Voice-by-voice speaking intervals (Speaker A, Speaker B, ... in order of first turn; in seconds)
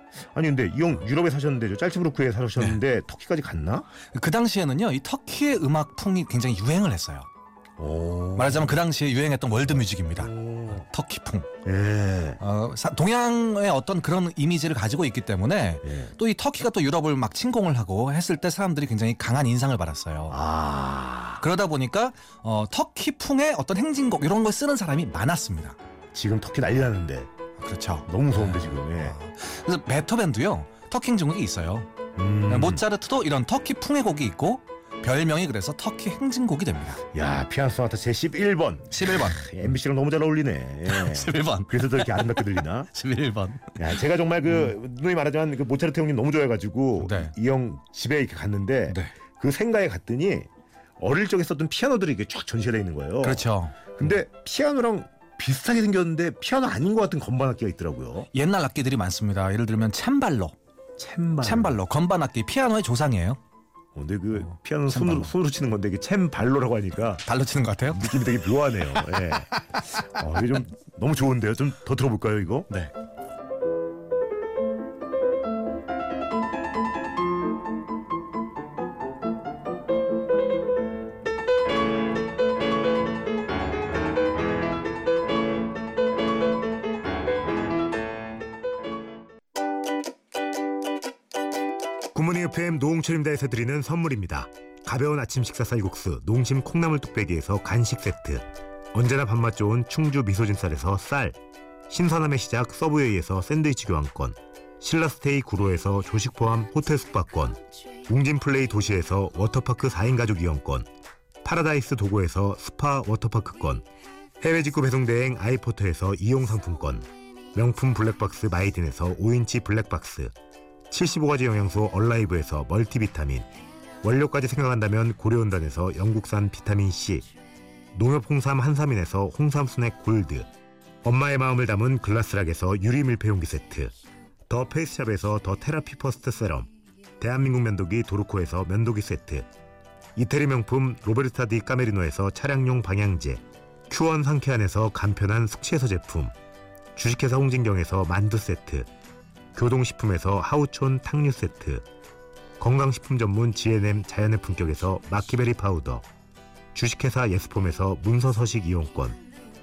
Speaker A: 0.3-3.9, 7.8-8.8, 10.2-10.8, 11.6-12.4, 20.3-21.4, 26.1-27.3, 28.1-29.2, 32.2-32.8, 37.1-42.9, 43.8-50.5, 51.0-58.3, 61.0-61.8, 63.9-67.2, 67.9-72.7, 92.1-101.3, 101.9-110.8, 111.4-113.8, 114.4-120.3, 120.9-123.5, 124.0-127.2, 127.9-130.4, 131.0-133.9, 134.5-139.4, 140.2-146.3, 146.9-148.9, 149.5-151.8, 152.6-156.0, 156.7-159.2
Speaker B: 4.1-7.3, 8.3-11.5, 12.4-20.4, 21.4-25.8, 27.6-31.9, 32.5-37.0, 38.9-39.5, 40.9-43.8, 47.0-47.3, 53.2-54.1, 58.3-60.5, 61.4-63.4, 64.9-65.3, 67.2-68.2, 69.1-69.8